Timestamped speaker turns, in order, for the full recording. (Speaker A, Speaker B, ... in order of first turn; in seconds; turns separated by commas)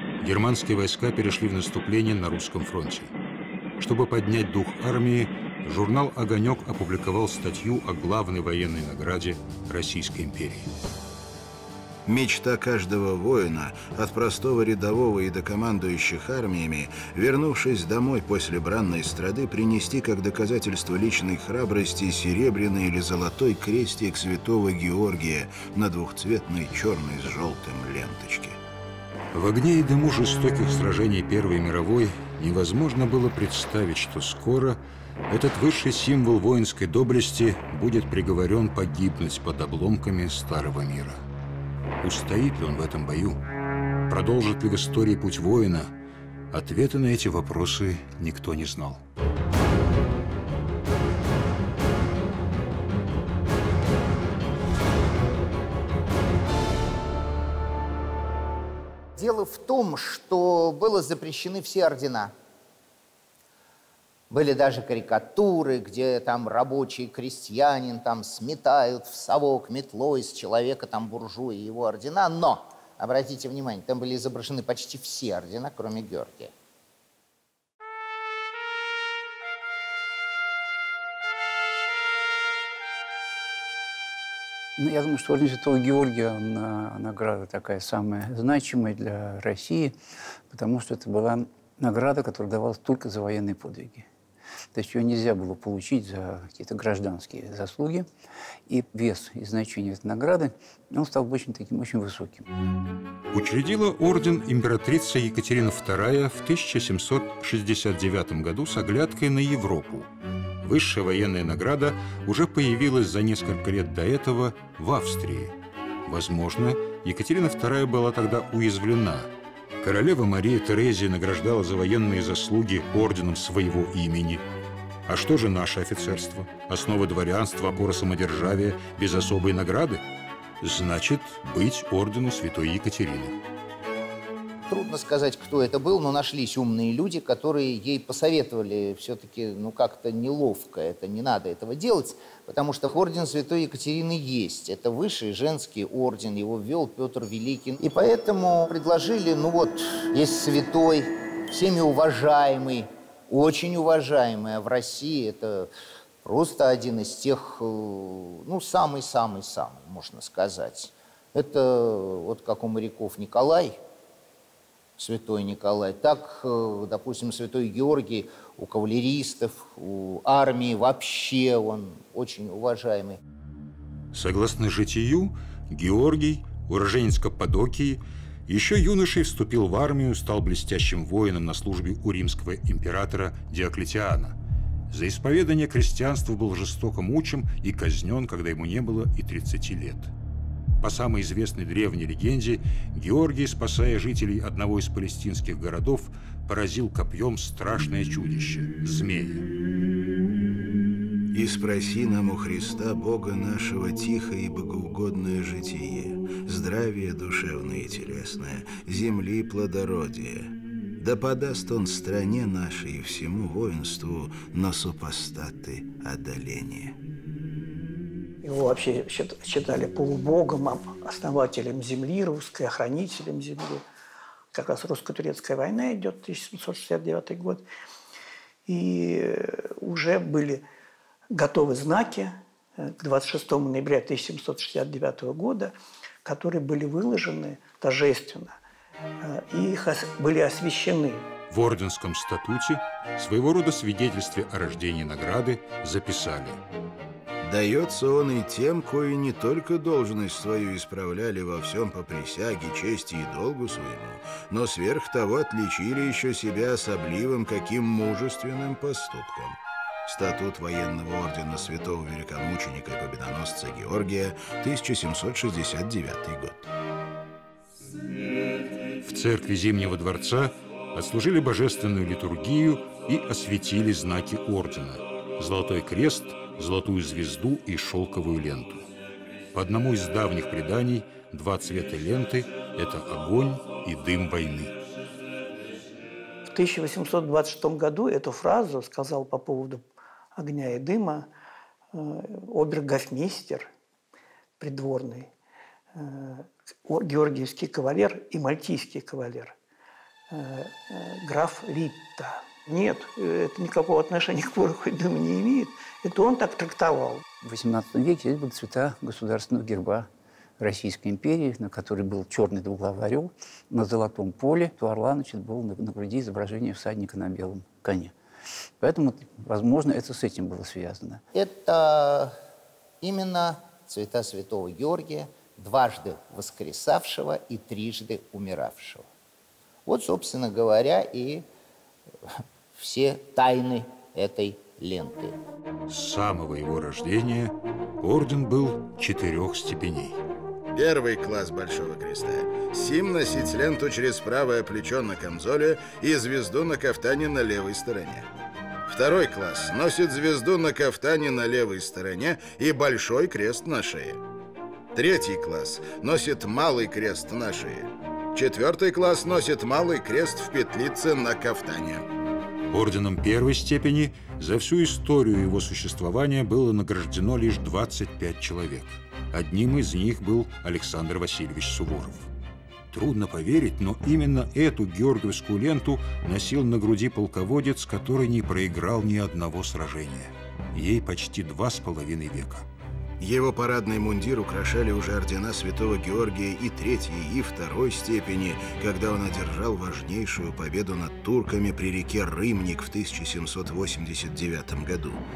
Speaker A: 0.2-3.1, Speaker A: 3.8-10.7, Speaker B: 12.1-28.6, Speaker A: 29.3-41.2, Speaker A: 42.0-43.4, Speaker A: 44.1-45.9, Speaker A: 46.5-49.0, Speaker C: 59.2-62.3, Speaker C: 64.3-76.5, Speaker D: 84.8-89.9, Speaker D: 90.5-94.1, Speaker D: 94.7-98.1, Speaker D: 98.7-102.5, Speaker A: 103.3-110.1, Speaker A: 110.6-124.5, Speaker A: 125.1-130.0, Speaker A: 130.6-133.4, Speaker C: 134.7-155.7, Speaker C: 156.2-163.8, Speaker C: 165.0-173.2, Speaker A: 174.1-184.4, Speaker A: 184.9-190.1, Speaker A: 190.8-199.5, Speaker B: 201.3-217.0, Speaker E: 218.4-223.8, Speaker E: 224.5-227.7, Speaker E: 228.7-230.6, Speaker E: 231.3-235.7, Speaker E: 236.2-238.6, Speaker E: 239.2-241.3, Speaker A: 241.5-246.6, Speaker B: 247.4-266.7, Speaker A: 269.0-278.9, Speaker A: 279.5-284.8, Speaker E: 286.5-291.3, Speaker E: 291.9-293.7, Speaker E: 294.6-295.3, Speaker E: 295.9-299.6, Speaker E: 300.3-307.2, Speaker D: 307.4-310.1, Speaker D: 310.6-318.1, Speaker D: 318.8-321.2, Speaker C: 321.3-322.4, Speaker C: 323.0-329.1, Speaker C: 329.9-331.4, Speaker C: 332.8-335.4, Speaker A: 335.9-340.2, Speaker B: 340.7-348.3, Speaker B: 348.9-354.2, Speaker B: 354.9-362.1, Speaker A: 362.7-372.3, Speaker A: 372.9-382.7, Speaker B: 383.2-395.2